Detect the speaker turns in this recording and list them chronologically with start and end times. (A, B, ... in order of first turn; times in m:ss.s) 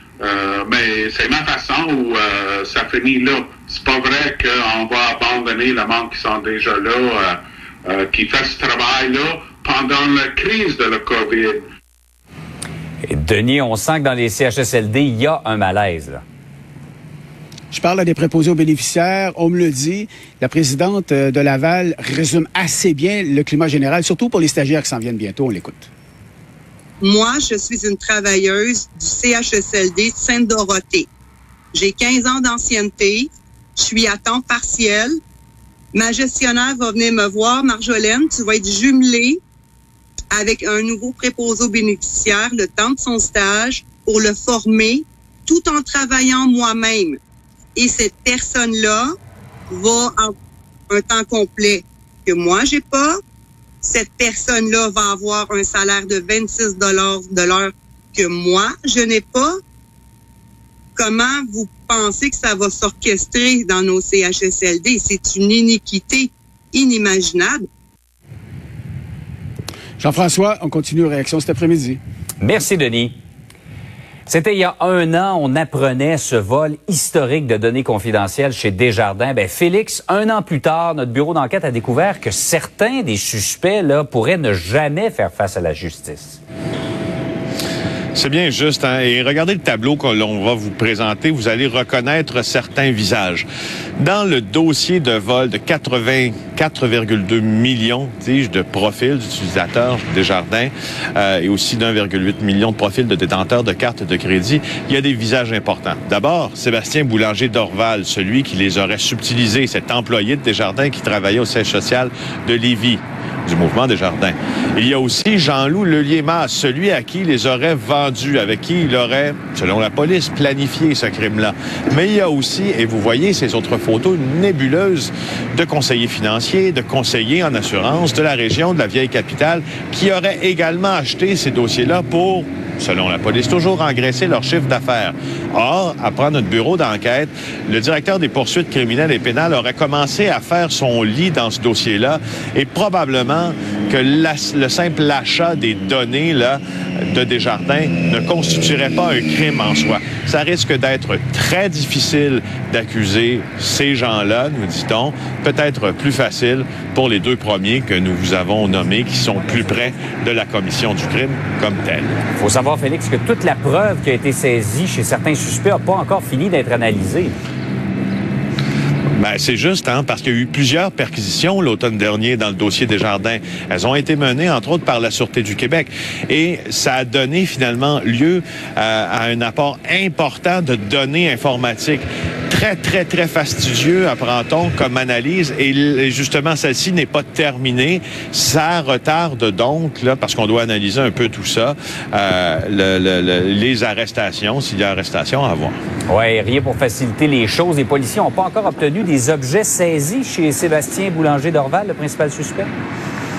0:00.2-0:11.6 A
0:13.0-0:16.2 B
0:17.7-0:25.9 C
0:27.0-0:31.1 D
0:31.7-0:35.1 D
0:35.9-0:39.4 D
0:40.3-0:47.2 D
0:47.8-0:49.1 D
0:49.7-0:50.3 D
0:50.9-0:53.2 D
0:53.8-0:59.5 D
1:01.0-1:07.6 D
1:10.0-1:12.0 C
1:12.4-1:13.1 B
1:14.3-1:26.4 B
1:28.2-1:33.5 E
1:34.0-2:42.2 E
2:42.4-2:47.4 B
2:49.2-3:15.8 E
3:16.1-3:22.7 B